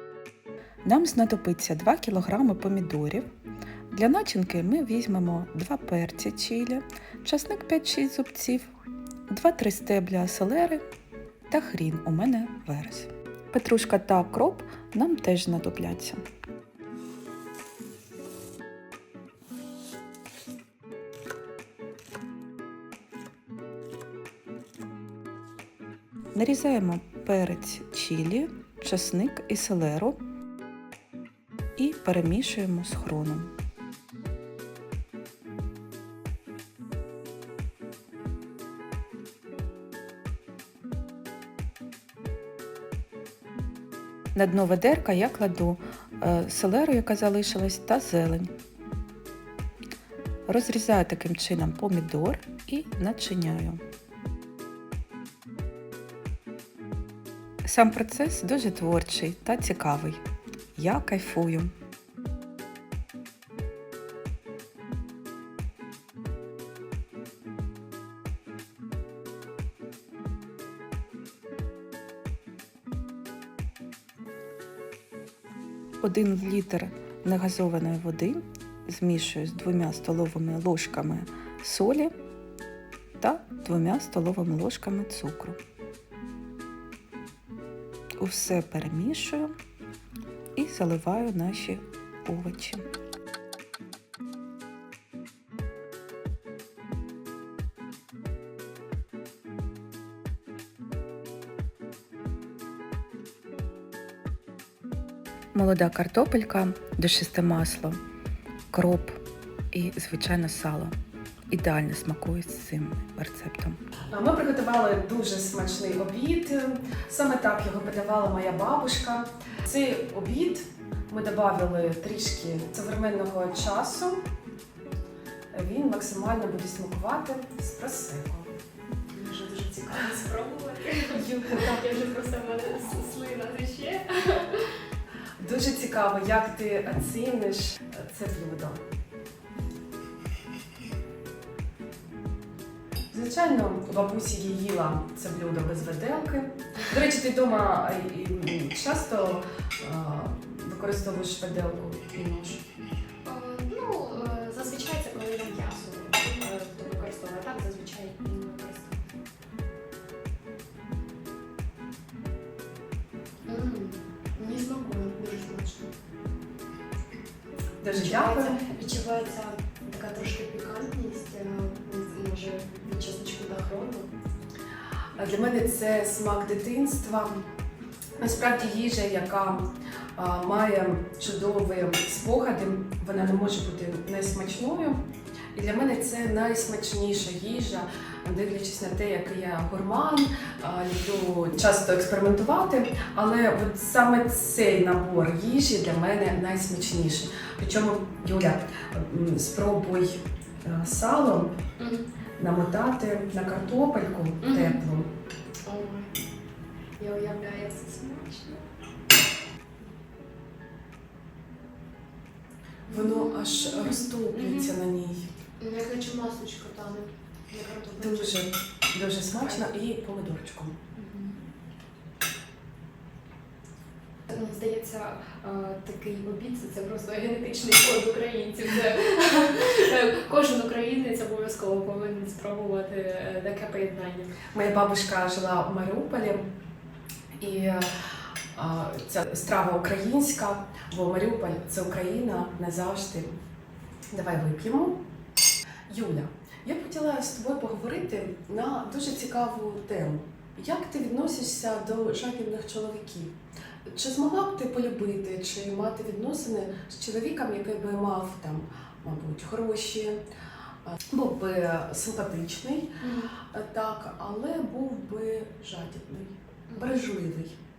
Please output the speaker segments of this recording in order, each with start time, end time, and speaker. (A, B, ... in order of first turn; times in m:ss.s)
0:00.8-0:03.2 A
0:03.9-0:08.7 A
0:09.3-0:10.8 A
0:11.5-0:16.2 A
0:26.4-0:30.2 A
0:31.8-0:33.5 A
0:44.3-0:48.5 A
0:50.5-0:53.8 A
0:57.6-1:00.2 A
1:00.8-1:01.7 A
1:16.0-1:22.1 A
1:23.2-1:25.6 A
1:28.2-1:29.5 A
1:30.6-1:32.9 A
1:45.5-1:48.0 A
1:48.7-1:49.2 A
1:49.7-1:50.9 A
1:51.5-1:53.8 A
1:54.1-2:04.2 B
2:05.5-2:08.5 B
2:09.1-2:14.7 C
2:11.1-2:11.8 B
2:15.4-2:18.8 B
2:23.1-2:32.6 B
2:33.2-2:39.2 C
2:43.5-2:45.9 C
2:47.8-2:48.6 B
2:47.9-2:54.1 C
2:55.2-2:57.4 B
2:58.2-3:05.0 B
3:05.6-3:21.6 B
3:21.8-3:22.1 C
3:22.4-3:25.1 B
3:24.4-3:24.8 C
3:25.7-3:26.1 C
3:27.0-3:28.7 C
3:32.9-3:34.8 C
3:32.9-3:35.3 B
3:35.6-3:38.5 C
3:38.0-3:40.8 B
3:39.4-3:39.7 C
3:41.0-3:41.4 C
3:44.3-3:54.4 C
3:54.5-3:56.4 B
3:57.4-3:57.9 B
3:58.5-4:03.4 B
4:04.1-4:05.0 B
4:05.9-4:13.4 B
4:13.9-4:20.2 B
4:20.9-4:22.9 B
4:23.0-4:23.3 C
4:23.4-4:27.6 B
4:26.7-4:27.0 C